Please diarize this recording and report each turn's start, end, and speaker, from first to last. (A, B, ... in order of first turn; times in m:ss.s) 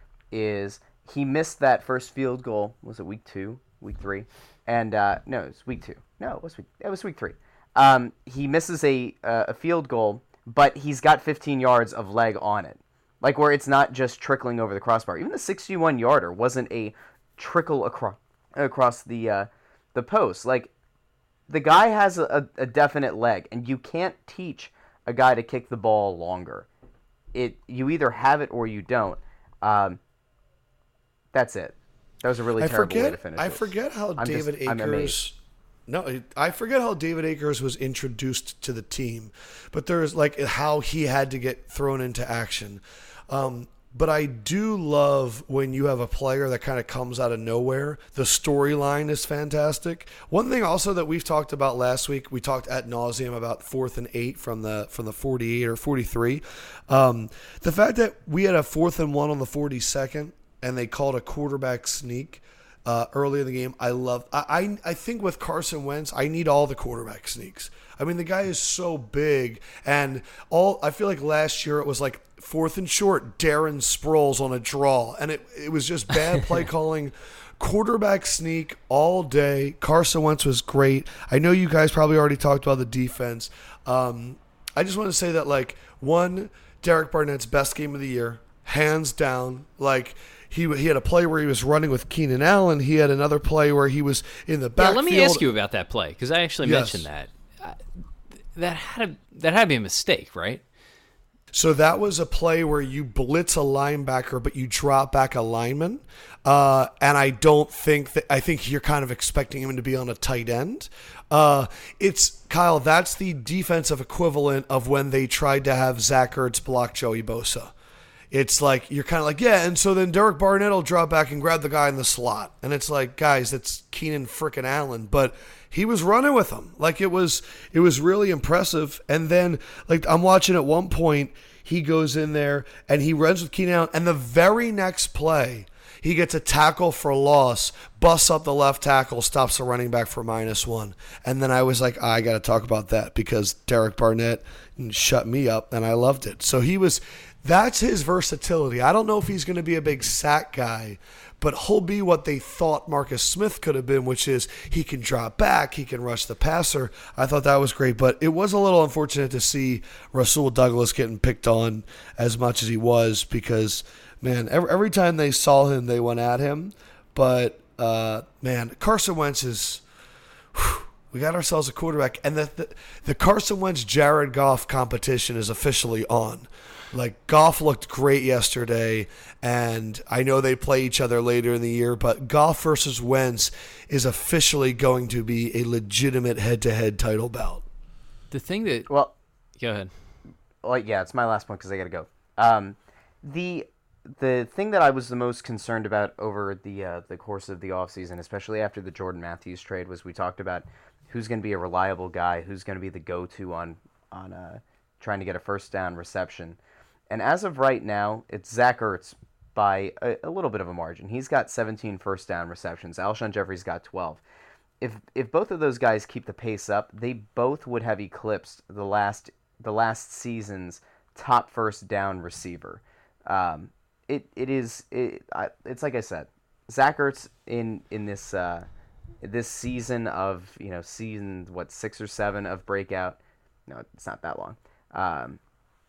0:00.3-0:20.7 A
0:21.5-0:26.7 A
0:27.3-0:30.0 A
0:31.3-0:33.6 A
0:32.6-0:35.4 B
0:34.2-0:35.2 A
0:35.9-1:35.4 B
1:34.8-1:37.8 C
1:36.6-1:37.1 B
1:38.5-1:40.6 C
1:41.5-1:57.7 B
1:58.3-2:49.8 B
2:50.5-3:07.6 B
3:08.3-3:08.9 C
3:09.6-3:09.9 C
3:10.6-3:26.6 A
3:27.1-3:34.2 A
3:34.8-3:48.7 A
3:49.2-3:55.4 A